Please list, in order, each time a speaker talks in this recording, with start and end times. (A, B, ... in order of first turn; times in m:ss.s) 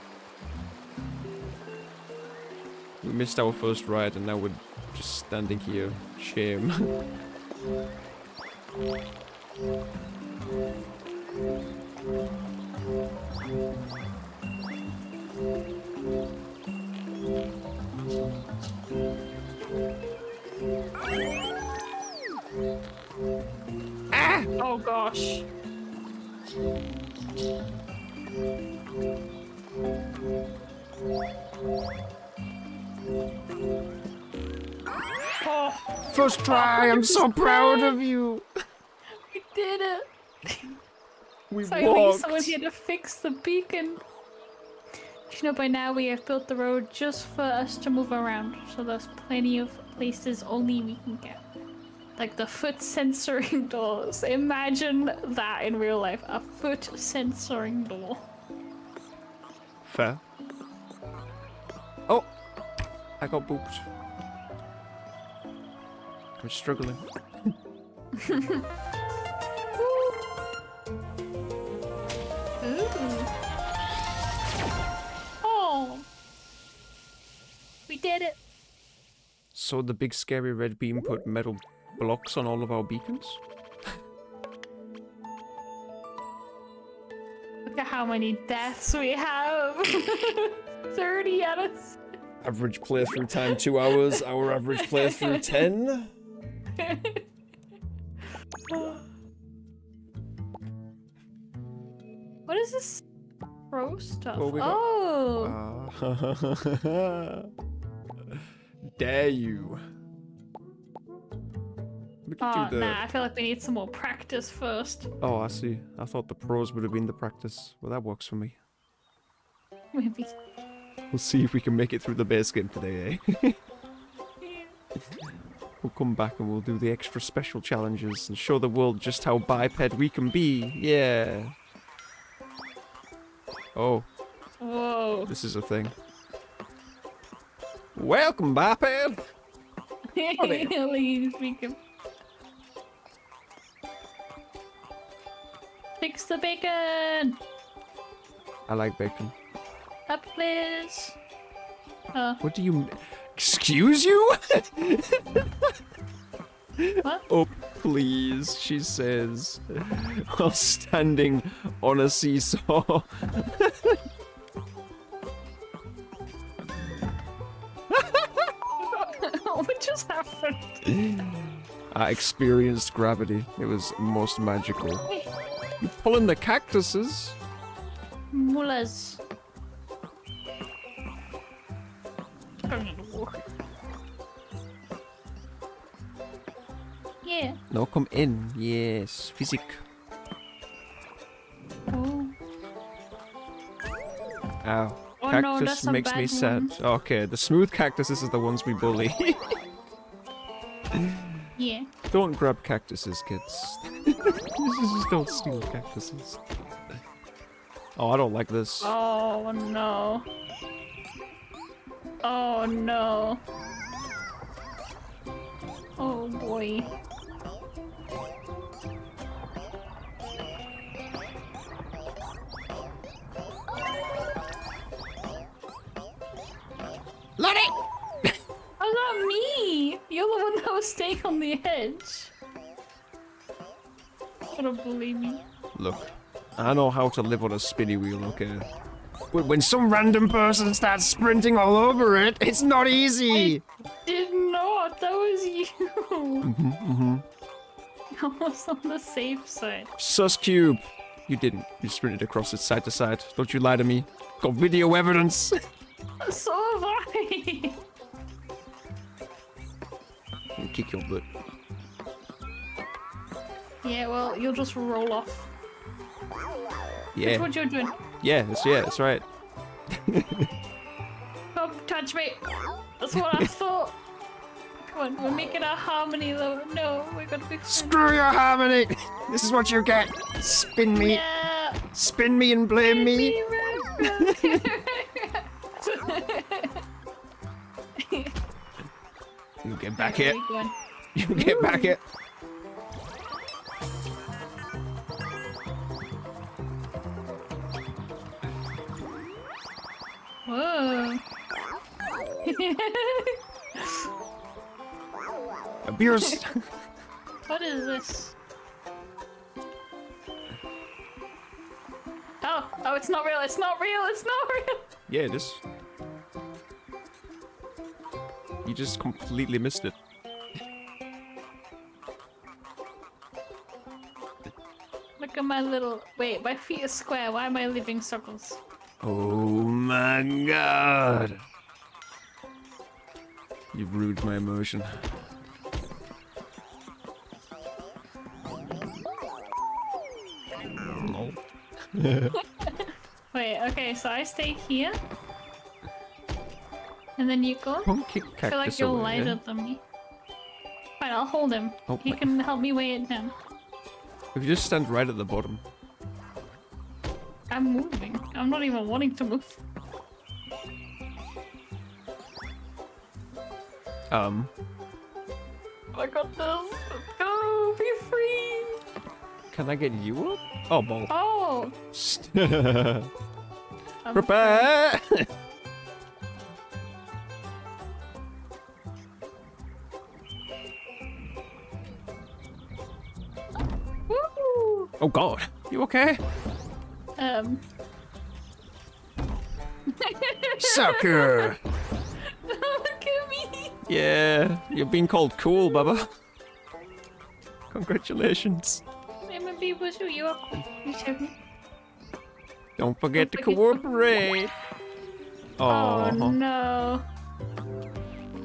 0:03.0-0:06.9 A
0:24.1-0:24.5 A
0:24.6-0:25.4 B
0:35.4-0:38.0 B
0:36.1-0:38.5 A
0:39.1-0:40.8 B
0:41.5-0:42.6 A
0:41.6-0:44.0 B
0:45.3-0:51.4 B
0:52.2-0:58.2 B
0:59.8-1:00.2 A
1:03.2-1:03.9 A
1:06.4-1:07.5 A
1:08.1-1:08.6 B
1:09.8-1:10.3 B
1:12.6-1:13.3 B
1:15.4-1:16.1 B
1:17.9-1:18.4 B
1:19.5-1:23.4 A
1:27.6-1:32.0 B
1:32.4-1:36.1 A
1:33.3-1:35.6 B
1:36.8-1:37.2 B
1:38.7-1:39.1 B
1:42.5-1:43.0 B
1:43.7-1:45.6 B
1:44.4-1:47.5 A
1:48.3-1:49.8 A
1:52.2-1:53.0 A
1:52.4-1:55.1 B
1:55.2-1:58.6 A
1:59.9-2:00.3 B
2:01.1-2:03.6 A
2:05.8-2:11.5 A
2:13.7-2:14.1 A
2:14.6-2:15.3 B
2:15.3-2:15.9 A
2:17.9-2:19.2 A
2:20.1-2:21.8 B
2:20.4-2:20.7 A
2:26.0-2:27.4 B
2:28.7-2:29.3 A
2:30.1-2:31.2 B
2:32.1-2:32.4 B
2:32.4-2:35.8 A
2:36.8-2:44.0 A
2:47.9-2:48.5 A
2:48.8-2:50.9 B
2:50.9-2:51.3 A
2:51.9-2:55.1 A
2:55.8-2:57.4 A
2:58.3-2:59.2 B
3:02.7-3:03.4 B
3:07.2-3:07.6 B
3:07.7-3:09.8 A
3:11.9-3:12.3 B
3:14.6-3:19.6 A
3:15.2-3:16.7 B
3:20.9-3:21.4 A
3:21.6-3:21.9 B
3:22.1-3:26.4 A
3:28.0-3:28.9 A
3:28.8-3:30.3 B
3:32.2-3:33.4 B
3:36.0-3:36.9 B
3:47.4-3:48.4 A
3:48.8-3:52.3 B
3:54.6-3:55.4 B
3:55.7-3:58.7 A
3:59.3-4:03.6 A
4:03.3-4:06.5 B
4:06.4-4:07.2 A
4:08.1-4:09.9 B
4:10.0-4:15.6 A
4:16.2-4:17.8 B
4:20.6-4:21.3 A
4:23.8-4:25.5 B
4:27.1-4:27.5 A
4:27.2-4:28.0 B
4:28.2-4:29.2 A
4:29.9-4:30.5 A
4:31.5-4:32.4 B
4:33.0-4:34.0 B
4:33.1-4:33.5 A
4:34.8-4:38.0 B
4:37.7-4:41.2 A
4:40.9-4:41.8 B
4:41.9-4:43.4 A
4:42.8-4:46.8 B
4:44.0-4:44.7 A
4:48.0-4:48.3 B
4:49.6-4:50.4 A
4:50.0-4:50.7 B
4:51.1-4:52.0 A
4:51.3-4:52.0 B
5:00.4-5:01.2 B
5:02.4-5:04.1 B
5:05.8-5:06.8 A
5:07.5-5:08.4 B
5:12.4-5:14.9 B
5:15.1-5:15.6 A
5:18.6-5:19.9 A
5:25.2-5:28.6 B
5:29.0-5:31.4 A
5:33.7-5:35.1 A
5:40.8-5:42.3 A
5:42.3-5:45.0 B
5:47.2-5:47.9 B
5:47.8-5:49.4 A
5:48.4-5:49.8 B
5:51.0-5:53.3 B
5:51.9-5:52.3 A
5:54.3-5:55.6 A
5:57.5-5:59.6 B
6:04.1-6:04.5 A
6:05.9-6:08.8 B
6:09.5-6:11.1 A
6:11.1-6:11.8 B
6:11.9-6:13.1 A
6:14.0-6:14.7 B
6:14.1-6:15.3 A
6:24.1-6:24.9 B
6:25.0-6:26.2 A
6:27.2-6:27.6 B
6:29.9-6:31.5 B
6:30.6-6:31.6 A
6:32.2-6:33.8 B
6:33.8-6:36.1 A
6:37.7-6:38.8 A
6:39.2-6:41.3 B
6:42.8-6:44.5 A
6:43.2-6:43.8 B
6:45.6-6:46.4 A
6:45.6-6:47.0 B